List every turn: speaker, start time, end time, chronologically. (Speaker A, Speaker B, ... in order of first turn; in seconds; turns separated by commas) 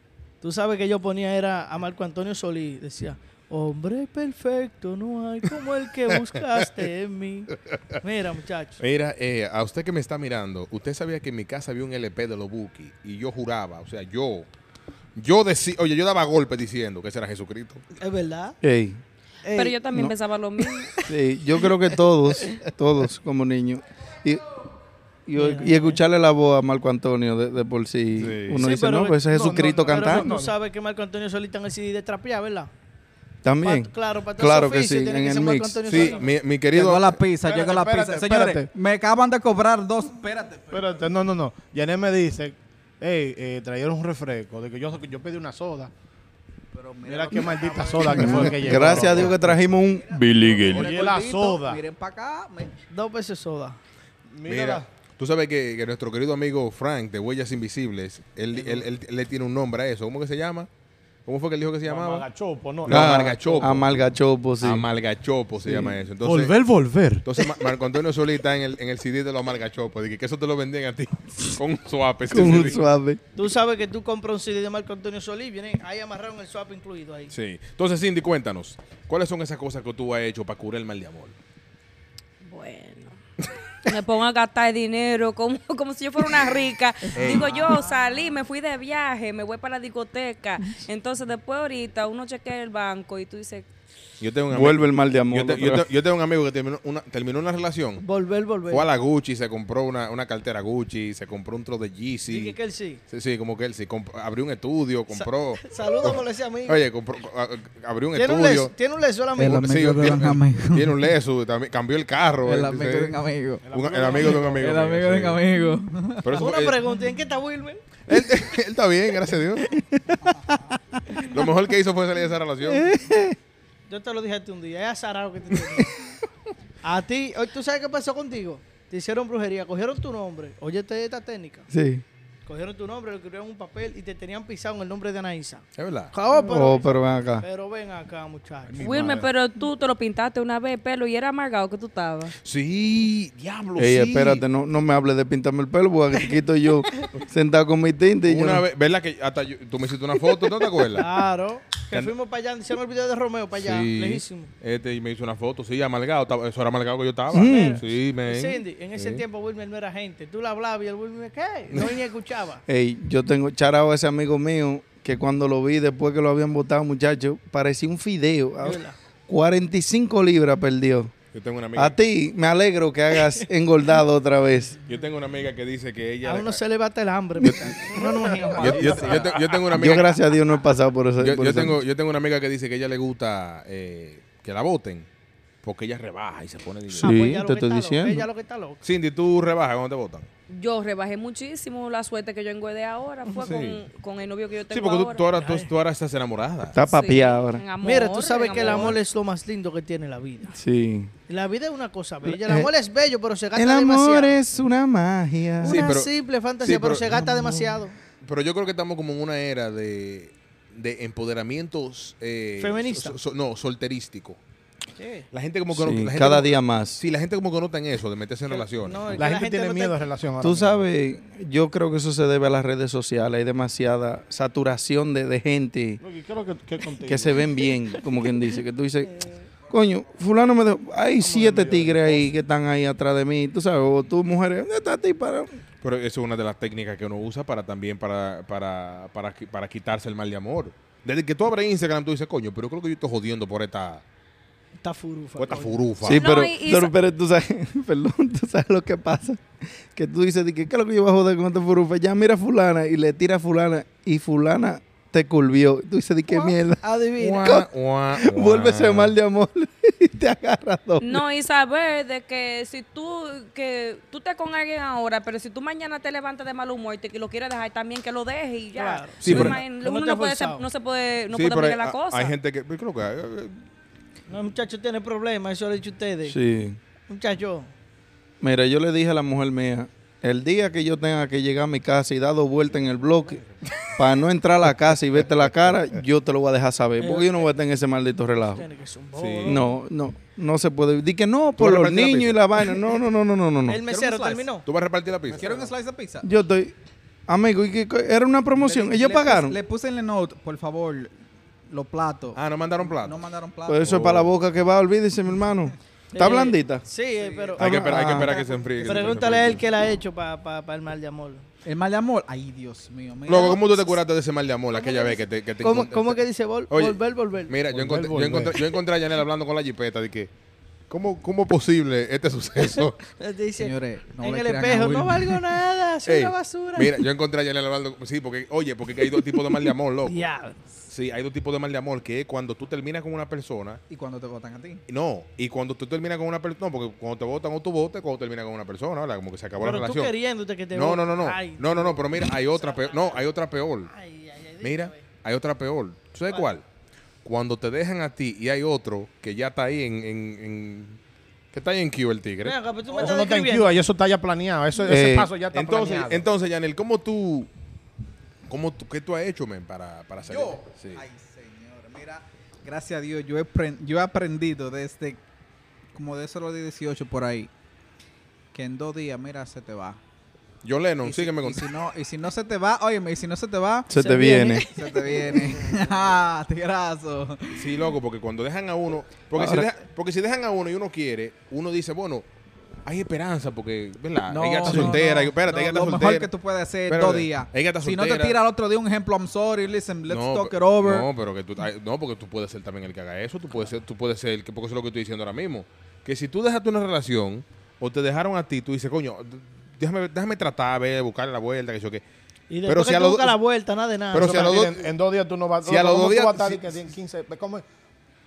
Speaker A: 0.4-8.8, Speaker B: 8.8-14.5, Speaker B: 15.2-17.8, Speaker A: 18.0-18.6, Speaker C: 18.6-19.0, Speaker A: 19.4-19.8, Speaker D: 19.5-20.9, Speaker C: 21.0-24.5, Speaker C: 25.3-30.3, Speaker A: 25.4-26.0, Speaker B: 28.2-28.7, Speaker A: 28.6-32.7, Speaker E: 29.3-30.5, Speaker C: 33.4-36.1, Speaker A: 33.6-36.3, Speaker B: 35.9-37.2, Speaker F: 36.7-40.9, Speaker E: 37.4-38.7, Speaker E: 40.7-45.9, Speaker F: 46.7-52.8, Speaker E: 47.0-49.5, Speaker C: 48.2-50.3, Speaker E: 50.4-51.8, Speaker A: 52.9-53.8, Speaker E: 54.3-54.9, Speaker B: 54.5-60.7, Speaker B: 61.3-62.3, Speaker E: 61.9-63.9, Speaker B: 62.8-64.0, Speaker C: 62.9-64.9, Speaker B: 64.6-66.6, Speaker C: 65.6-66.0, Speaker E: 66.2-67.2, Speaker B: 67.2-72.9, Speaker C: 72.3-73.2, Speaker A: 73.3-77.3, Speaker B: 77.3-81.3, Speaker D: 82.4-83.2, Speaker D: 83.8-93.7, Speaker B: 87.2-87.8, Speaker A: 87.2-87.8, Speaker B: 94.2-98.0, Speaker C: 94.5-95.9, Speaker A: 98.0-98.9, Speaker B: 98.7-102.6, Speaker A: 102.3-103.0, Speaker B: 103.1-108.7, Speaker A: 105.1-106.8, Speaker A: 108.2-109.8, Speaker F: 109.4-111.0, Speaker B: 109.4-113.2, Speaker F: 112.4-113.6, Speaker E: 113.6-114.8, Speaker B: 113.7-115.5, Speaker F: 114.3-116.4, Speaker B: 116.2-116.8, Speaker A: 116.3-117.8, Speaker B: 118.1-119.7, Speaker B: 121.1-122.9, Speaker C: 122.6-123.4, Speaker A: 123.9-126.0, Speaker A: 126.8-131.7, Speaker C: 131.7-132.0, Speaker A: 132.5-139.0, Speaker B: 135.8-136.1, Speaker C: 136.5-137.4, Speaker E: 138.8-139.2, Speaker B: 138.8-139.3, Speaker D: 138.8-142.3, Speaker B: 142.4-144.4, Speaker C: 143.8-148.7, Speaker B: 148.3-151.1, Speaker A: 150.9-154.5, Speaker B: 153.6-159.2, Speaker C: 157.3-157.8, Speaker A: 157.3-162.6, Speaker C: 162.7-171.1, Speaker A: 168.6-169.0, Speaker B: 171.3-172.0, Speaker C: 171.8-174.8, Speaker B: 174.8-176.6, Speaker A: 176.2-179.2, Speaker B: 177.4-178.0, Speaker F: 177.6-179.6, Speaker B: 178.6-180.2, Speaker C: 179.7-181.8, Speaker B: 181.2-185.1, Speaker B: 185.6-187.2, Speaker A: 186.9-188.8, Speaker C: 187.0-188.3, Speaker B: 188.8-190.3, Speaker D: 190.5-195.2, Speaker B: 193.3-193.8, Speaker B: 194.7-196.8, Speaker A: 195.3-195.7, Speaker C: 196.7-197.6, Speaker D: 196.8-199.0, Speaker A: 197.8-200.6, Speaker B: 198.6-198.9, Speaker C: 200.5-201.1, Speaker A: 201.3-204.4, Speaker C: 202.2-202.7, Speaker C: 203.6-205.9, Speaker A: 205.6-207.9, Speaker B: 205.6-207.3, Speaker B: 208.2-214.4, Speaker A: 212.6-213.2, Speaker A: 215.0-215.3, Speaker B: 215.3-219.1, Speaker C: 215.7-217.0, Speaker A: 218.5-220.0, Speaker E: 219.2-220.8, Speaker C: 220.4-226.0, Speaker E: 226.0-227.6, Speaker C: 227.1-229.1, Speaker C: 229.7-235.5, Speaker E: 231.2-232.2, Speaker B: 235.8-244.0, Speaker A: 244.8-245.8, Speaker B: 245.4-246.3, Speaker C: 246.0-256.8, Speaker D: 246.1-246.9, Speaker A: 256.3-257.6, Speaker B: 257.2-259.1, Speaker C: 257.4-261.2, Speaker D: 261.0-272.4, Speaker A: 268.8-270.6, Speaker B: 269.2-269.6, Speaker C: 269.2-269.6, Speaker B: 271.3-273.6, Speaker A: 274.3-276.4, Speaker C: 276.3-276.8, Speaker A: 277.1-277.7, Speaker C: 278.4-288.6, Speaker A: 287.0-287.4, Speaker A: 288.5-289.7, Speaker B: 289.1-289.6, Speaker C: 289.4-293.8, Speaker B: 291.6-292.8, Speaker A: 293.7-294.7, Speaker F: 293.9-294.5, Speaker B: 294.7-295.7, Speaker F: 295.3-296.3, Speaker C: 296.2-296.8, Speaker C: 297.3-299.6, Speaker F: 298.6-301.1, Speaker F: 301.7-303.9, Speaker B: 302.4-303.3, Speaker C: 303.7-306.8, Speaker B: 303.8-304.3, Speaker A: 306.1-311.4, Speaker B: 307.6-309.6, Speaker C: 307.6-308.4, Speaker F: 311.6-313.7, Speaker B: 313.3-320.3, Speaker A: 313.3-313.9, Speaker A: 314.7-317.6, Speaker E: 317.7-318.6, Speaker B: 320.9-323.0, Speaker A: 323.2-326.9, Speaker F: 323.6-325.4, Speaker B: 326.1-330.3, Speaker A: 330.1-330.6, Speaker B: 330.9-333.8, Speaker F: 333.9-334.8, Speaker B: 334.9-340.1, Speaker A: 339.6-343.3, Speaker B: 340.7-343.9, Speaker A: 343.9-345.0, Speaker B: 344.6-346.6, Speaker B: 347.2-351.0, Speaker B: 351.5-352.6, Speaker A: 352.4-353.8, Speaker E: 352.9-356.3, Speaker C: 354.8-355.3, Speaker B: 355.5-357.5, Speaker B: 358.5-361.0, Speaker F: 360.2-365.2, Speaker F: 365.9-367.5, Speaker F: 368.5-370.0, Speaker B: 370.6-371.7, Speaker F: 371.0-377.7, Speaker C: 373.9-374.7, Speaker D: 374.2-374.5, Speaker B: 377.5-382.3, Speaker C: 379.4-379.7, Speaker B: 382.9-386.3, Speaker F: 384.3-391.1, Speaker C: 384.6-385.0, Speaker B: 386.9-388.4, Speaker B: 390.1-402.0, Speaker A: 402.5-404.6, Speaker B: 402.7-403.4, Speaker B: 404.1-404.9, Speaker E: 404.1-407.6, Speaker B: 405.6-406.7